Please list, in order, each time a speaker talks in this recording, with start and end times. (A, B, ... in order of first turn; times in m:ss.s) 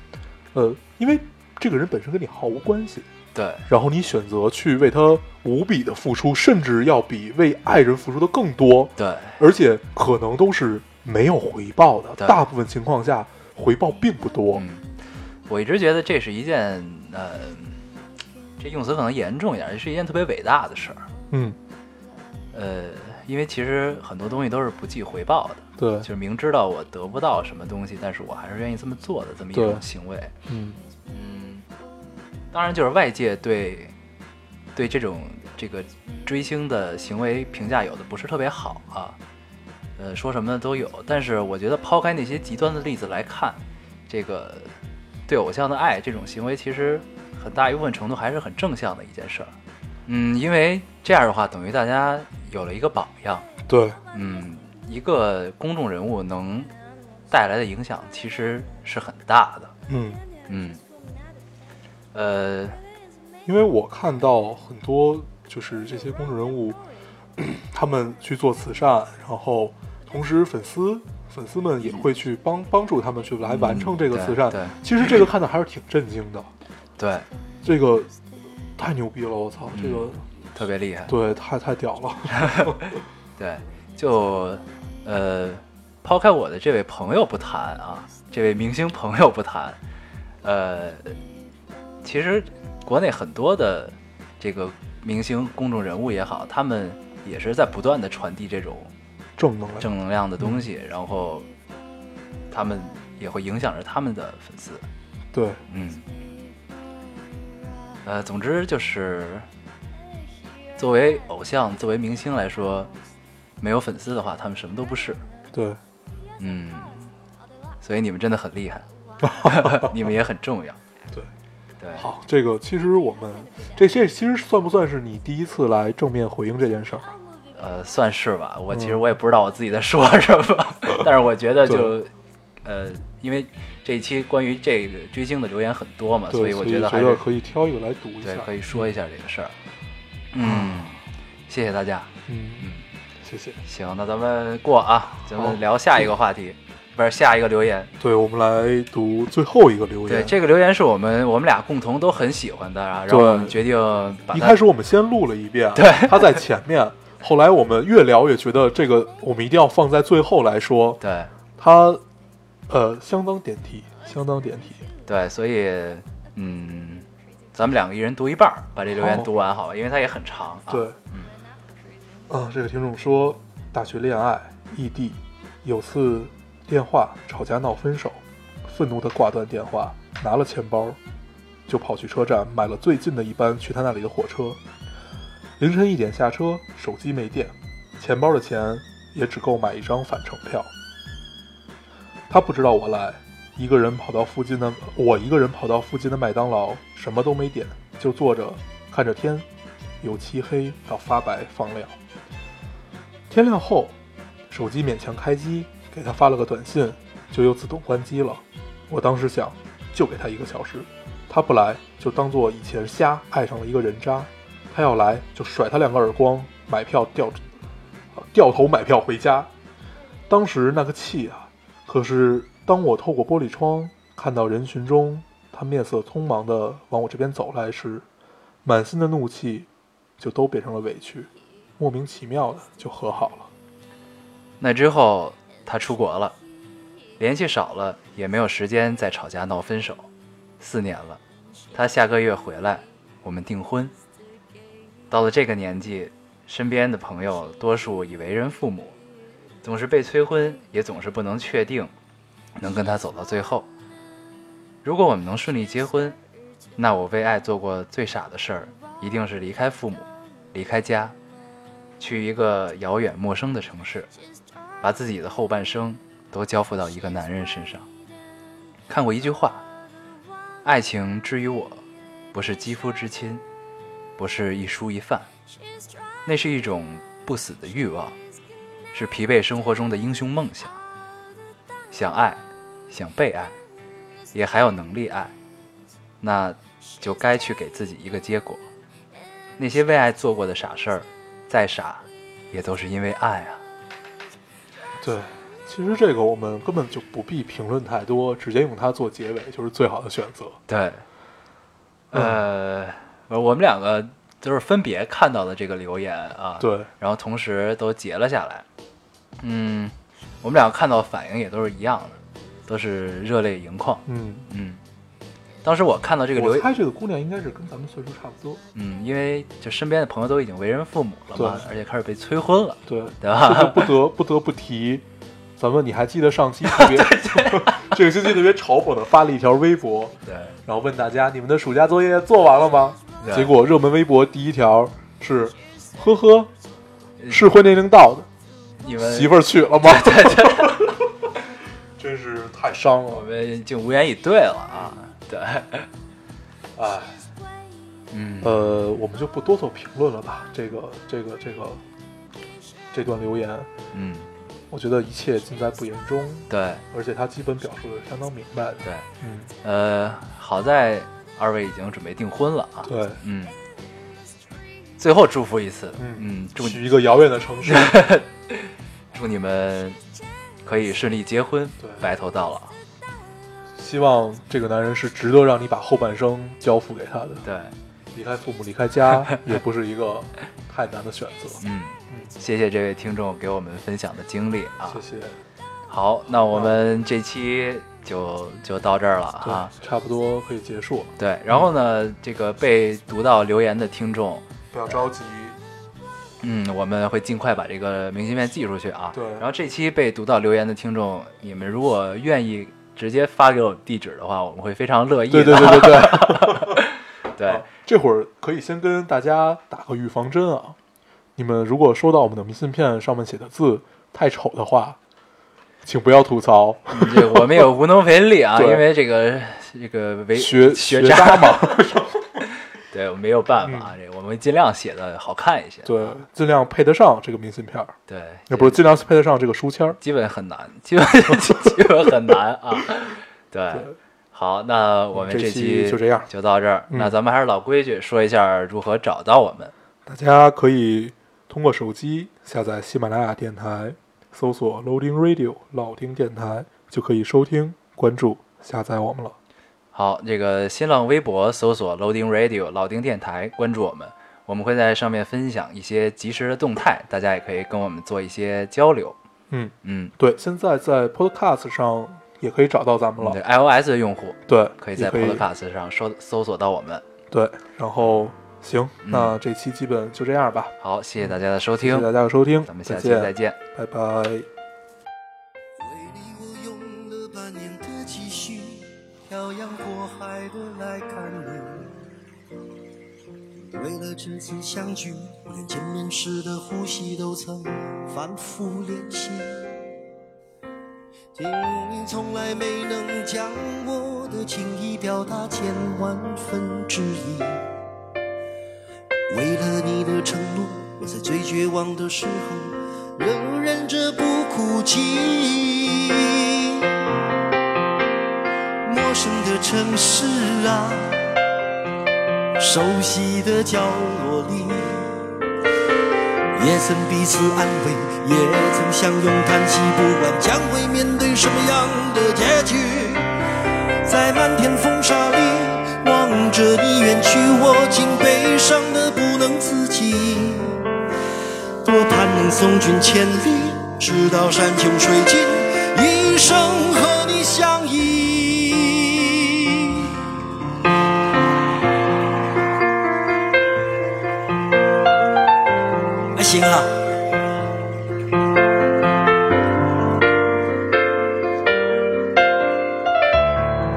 0:00.5-0:03.1 A
0:03.3-0:03.7 B
0:03.7-0:14.6 A
0:09.0-0:09.4 B
0:14.5-0:14.8 B
0:15.5-0:17.8 B
0:18.6-0:21.1 B
0:21.3-0:21.6 A
0:22.5-0:30.3 B
0:25.8-0:26.1 A
0:29.5-0:29.8 A
0:30.5-0:30.8 A
0:31.1-0:31.7 B
0:32.5-0:33.9 B
0:34.8-0:39.2 B
0:40.0-0:44.7 B
0:45.3-0:49.6 B
0:50.1-0:53.5 B
0:53.7-0:54.0 A
0:54.1-0:56.7 B
0:57.3-0:59.7 B
0:59.9-1:00.2 A
1:00.5-1:00.8 B
1:02.1-1:02.8 B
1:03.4-1:06.8 A
1:07.4-1:16.5 A
1:13.4-1:14.8 B
1:17.0-1:17.3 B
1:17.6-1:18.1 A
1:18.8-1:20.2 A
1:19.7-1:21.2 B
1:21.1-1:23.0 A
1:22.3-1:22.8 B
1:23.4-1:29.8 B
1:30.4-1:31.2 B
1:32.0-1:38.9 B
1:39.4-1:39.9 A
1:39.8-1:41.5 B
1:42.5-1:44.9 B
1:45.3-1:45.6 A
1:45.7-1:46.1 B
1:48.0-1:49.5 B
1:50.8-1:52.9 B
1:53.6-1:55.2 B
1:55.5-1:55.8 A
1:56.4-1:57.1 B
1:57.8-2:00.8 B
1:59.2-1:59.9 A
2:01.8-2:02.1 B
2:02.0-2:07.1 A
2:07.5-2:12.1 B
2:08.7-2:09.0 A
2:11.7-2:11.9 A
2:12.6-2:17.2 B
2:16.3-2:18.9 A
2:18.2-2:19.6 B
2:20.3-2:22.9 B
2:20.4-2:20.9 A
2:22.3-2:22.7 A
2:23.2-2:23.6 A
2:23.7-2:27.9 B
2:25.3-2:26.0 A
2:28.0-2:30.4 A
2:30.1-2:34.6 B
2:33.1-2:33.6 A
2:34.3-2:41.0 A
2:35.8-2:36.4 B
2:41.0-2:41.3 B
2:41.6-2:42.0 A
2:42.7-2:44.8 A
2:45.1-2:51.3 B
2:48.9-2:49.3 A
2:50.7-2:51.0 A
2:52.3-3:01.0 A
3:01.7-3:04.6 A
3:05.6-3:10.7 A
3:12.3-3:19.5 A
3:20.0-3:22.0 A
3:23.3-3:24.0 A
3:24.5-3:37.4 A
3:38.1-3:39.5 A
3:40.3-3:48.0 A
3:48.6-3:49.7 A
3:50.2-3:53.5 A
3:54.6-3:56.4 B
3:57.2-4:00.1 B
4:00.6-4:01.2 B
4:01.7-4:03.9 B
4:05.1-4:09.0 B
4:09.6-4:11.9 B
4:12.6-4:13.7 B
4:14.8-4:16.2 B
4:16.8-4:21.2 B
4:22.0-4:24.1 B
4:24.8-4:27.9 B
4:28.9-4:29.6 B
4:30.6-4:33.4 B
4:34.2-4:35.3 B
4:36.2-4:38.2 B
4:38.9-4:40.8 B
4:41.9-4:43.6 B
4:44.3-4:45.3 B
4:46.2-4:48.7 B
4:49.6-4:53.6 B
4:55.0-5:00.6 A
5:00.7-5:01.0 B
5:02.1-5:08.7 B
5:02.1-5:02.4 A
5:06.6-5:06.9 A
5:09.4-5:14.8 B
5:14.1-5:14.5 A
5:15.6-5:16.7 B
5:16.4-5:18.6 A
5:18.7-5:23.9 B
5:21.4-5:21.6 A
5:22.9-5:25.1 A
5:25.6-5:36.5 A
5:26.7-5:28.0 B
5:30.3-5:30.6 B
5:33.2-5:33.6 B
5:37.2-5:37.5 B
5:37.3-5:38.3 A
5:38.8-5:41.0 B
5:39.0-5:41.3 A
5:42.0-5:43.3 A
5:43.1-5:45.9 B
5:46.8-5:47.2 A
5:48.1-5:48.6 B
5:48.4-5:51.8 A
5:52.9-5:53.7 A
5:53.9-5:54.3 B
5:54.7-5:59.5 A
5:56.5-5:56.8 B
5:59.6-6:03.6 B
6:02.8-6:03.2 A
6:05.0-6:06.8 B
6:06.0-6:08.1 A
6:07.6-6:10.0 B
6:10.6-6:12.7 B
6:11.8-6:12.1 A
6:13.7-6:17.4 A
6:17.4-6:17.8 B
6:18.1-6:22.3 A
6:21.6-6:25.0 B
6:24.9-6:25.4 A
6:25.9-6:29.7 B
6:26.5-6:26.8 A
6:29.4-6:31.7 A
6:31.2-6:34.5 B
6:34.7-6:35.6 A
6:36.4-6:47.6 B
6:39.1-6:39.5 A
6:45.3-6:46.8 A
6:47.4-6:50.8 A
6:51.4-6:55.0 A
6:55.8-6:57.7 A
6:56.9-7:02.0 B
6:58.6-6:58.8 A
7:00.4-7:02.3 A
7:02.8-7:06.2 B
7:03.6-7:03.9 A
7:05.8-7:08.0 A
7:08.1-7:08.8 B
7:08.5-7:10.0 A
7:10.0-7:19.7 B
7:15.1-7:16.3 A
7:20.1-7:29.4 A
7:29.9-7:39.2 B
7:39.5-7:43.4 A
7:39.8-7:40.1 B
7:43.2-7:47.0 B
7:44.5-7:45.5 A
7:47.3-7:50.7 A
7:49.0-7:49.4 B
7:50.8-7:53.6 B
7:51.8-7:54.5 A
7:55.8-8:01.9 C
8:03.5-8:09.8 C
8:11.4-8:17.7 C
8:19.3-8:26.9 C
8:28.8-8:31.3 C
8:32.6-8:35.2 C
8:36.5-8:43.3 C
8:44.0-8:50.8 C
8:51.8-9:00.2 C
9:06.4-9:06.9 C